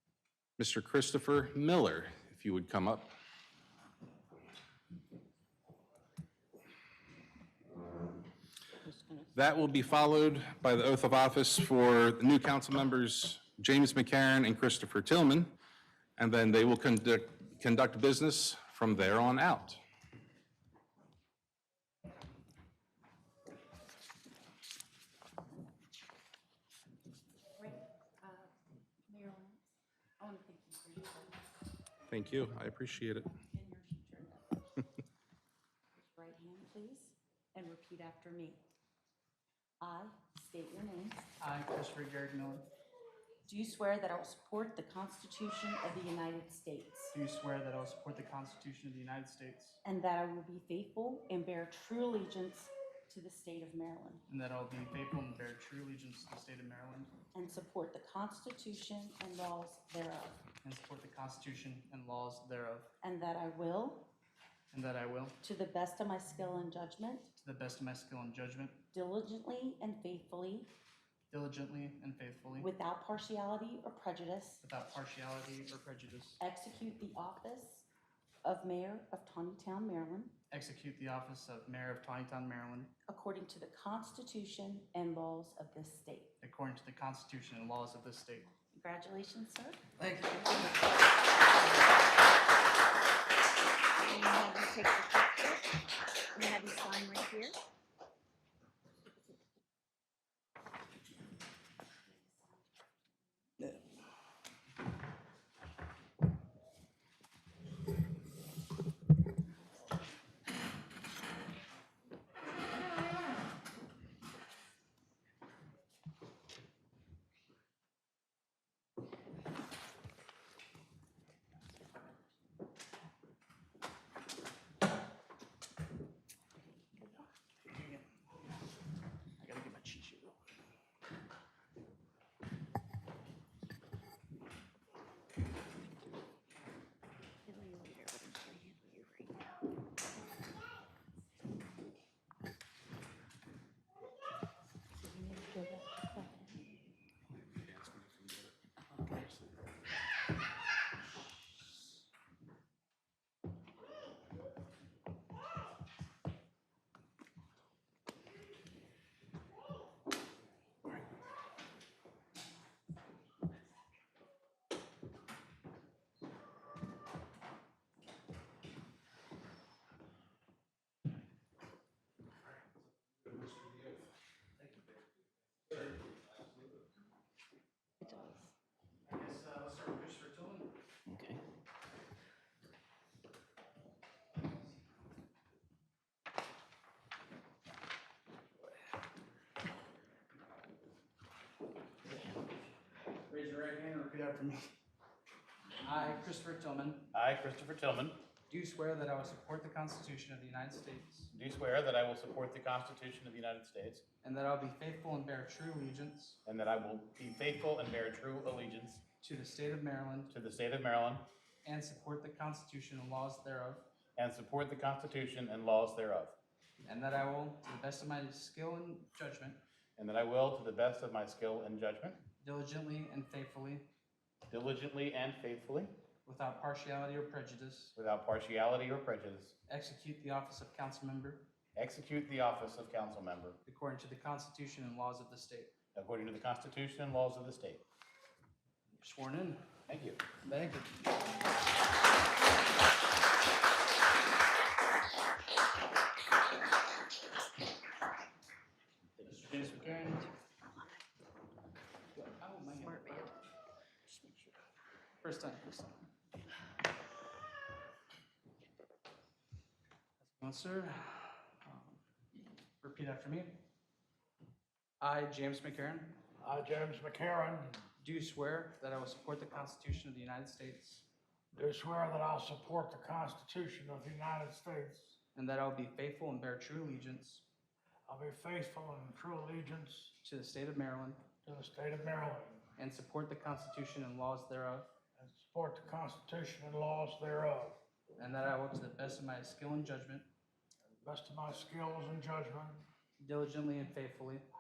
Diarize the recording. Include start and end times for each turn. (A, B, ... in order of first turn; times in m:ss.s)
0:00.6-0:03.1 A
0:08.8-0:09.4 B
0:09.4-0:15.5 A
0:16.2-0:19.8 A
0:27.6-0:28.5 B
0:29.1-0:29.7 B
0:30.2-0:31.5 B
0:32.1-0:33.3 A
0:33.3-0:34.6 B
0:36.0-0:38.6 B
0:39.8-0:41.3 B
0:41.4-0:42.7 C
0:43.4-0:47.1 B
0:47.1-0:49.8 C
0:49.8-0:54.2 B
0:54.3-0:57.1 C
0:57.3-1:00.4 B
1:00.6-1:02.9 C
1:03.0-1:04.1 B
1:04.7-1:05.4 C
1:05.4-1:07.3 B
1:07.4-1:08.8 C
1:08.9-1:10.7 B
1:11.3-1:12.7 C
1:12.6-1:14.6 B
1:14.6-1:16.4 C
1:16.4-1:17.9 B
1:18.4-1:20.3 B
1:20.5-1:22.9 C
1:23.1-1:26.4 B
1:26.4-1:28.5 C
1:28.6-1:29.8 B
1:30.0-1:30.7 C
1:34.1-1:35.6 B
1:36.3-1:37.6 B
1:42.1-1:42.6 B
2:07.0-2:08.1 C
2:09.4-2:10.4 C
2:17.5-2:19.4 B
2:25.0-2:26.6 B
2:27.8-2:28.3 D
2:58.0-2:58.4 B
2:59.1-3:00.7 C
3:13.3-3:14.7 C
3:15.8-3:17.1 C
3:17.1-3:18.2 D
3:18.5-3:21.3 C
3:21.3-3:24.0 D
3:24.2-3:26.4 C
3:26.4-3:29.0 D
3:29.2-3:30.3 C
3:30.3-3:31.3 D
3:31.6-3:33.9 C
3:34.2-3:36.4 D
3:36.8-3:39.6 C
3:40.0-3:42.2 D
3:42.4-3:43.9 C
3:44.5-3:45.9 D
3:46.3-3:47.9 C
3:48.0-3:49.5 D
3:49.7-3:51.5 C
3:51.8-3:53.6 D
3:53.7-3:55.7 C
3:56.0-3:57.8 D
3:59.0-3:59.6 C
3:59.9-4:00.2 D
4:00.4-4:00.9 C
4:09.3-4:10.3 C
4:12.2-4:13.3 C
4:15.2-4:16.0 C
4:20.2-4:22.0 C
4:22.8-4:23.6 C
4:25.0-4:26.2 C
4:26.4-4:27.9 E
4:28.0-4:31.1 C
4:31.5-4:35.2 E
4:35.4-4:37.5 C
4:38.1-4:40.2 E
4:40.2-4:41.2 C
4:41.4-4:42.6 E
4:42.8-4:44.9 C
4:45.2-4:47.8 E
4:48.2-4:50.3 C
4:51.0-4:52.8 E
4:53.2-4:54.4 C